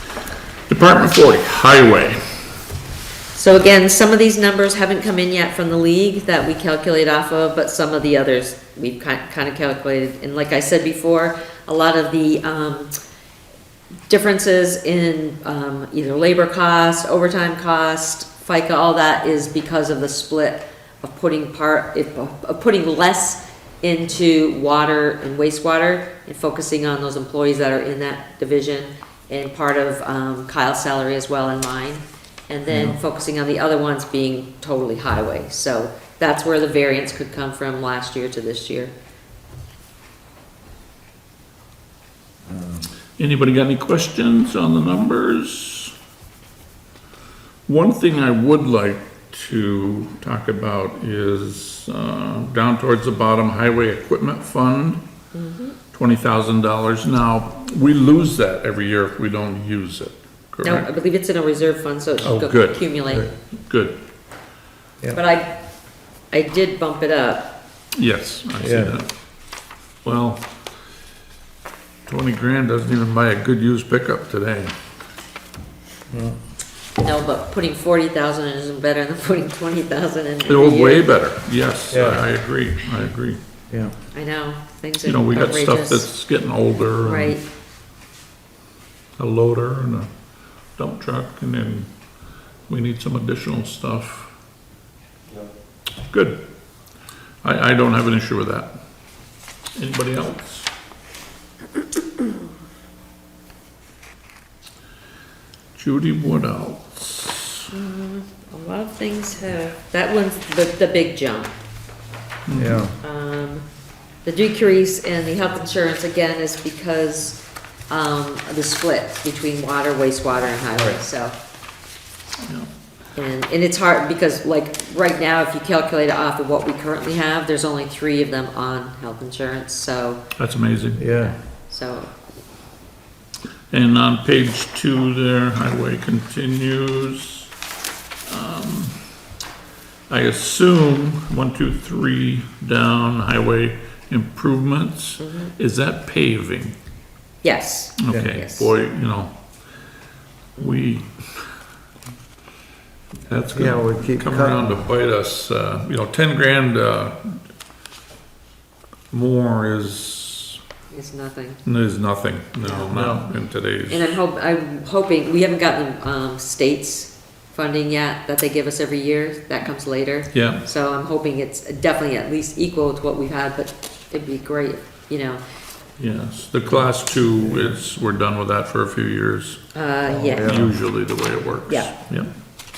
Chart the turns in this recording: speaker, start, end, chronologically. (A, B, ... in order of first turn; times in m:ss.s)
0:00.7-0:02.2 A
0:03.3-0:12.9 B
0:14.1-0:38.9 B
0:32.7-0:33.0 C
0:42.5-0:42.9 C
0:43.2-0:45.9 A
0:47.7-0:55.0 A
0:55.3-0:55.8 B
0:55.9-1:00.9 A
1:00.6-1:03.3 B
1:02.2-1:04.0 A
1:05.1-1:05.6 B
1:06.3-1:07.5 B
1:07.9-1:09.1 A
1:08.6-1:09.0 C
1:10.0-1:10.5 A
1:12.1-1:14.7 A
1:16.1-1:16.4 C
1:17.0-1:21.1 B
1:20.5-1:23.4 A
1:21.9-1:22.2 C
1:23.7-1:24.0 C
1:24.1-1:26.1 B
1:25.0-1:27.4 A
1:27.0-1:27.4 B
1:29.2-1:30.1 A
1:30.8-1:31.9 A
1:32.7-1:34.3 A
1:36.1-1:36.4 A
1:37.4-1:38.7 A
1:39.8-1:40.7 A
1:45.8-1:47.7 A
1:47.7-1:51.5 B
1:52.5-1:52.8 A
1:52.5-1:53.0 C
1:53.0-1:53.6 B
1:54.2-2:01.4 B
2:02.4-2:02.7 A
2:03.2-2:10.2 B
2:10.4-2:11.0 A
2:11.0-2:11.3 C
2:11.2-2:12.1 B
2:13.7-2:17.5 A
2:18.3-2:19.0 A
2:20.1-2:26.8 A
2:25.2-2:25.5 B
2:27.4-2:28.7 B
2:28.0-2:29.3 A
2:30.6-2:31.5 A
2:33.3-2:37.4 A
2:33.6-2:34.7 C
2:39.1-2:40.6 A
2:40.9-2:41.6 B
2:41.6-2:44.2 A
2:42.6-2:42.9 B
2:42.9-2:43.2 C
2:43.9-2:55.4 B
2:50.3-2:50.6 A
2:56.0-2:59.6 A
2:59.7-3:00.7 B
3:00.1-3:00.8 C
3:00.4-3:02.3 A
3:01.7-3:01.9 B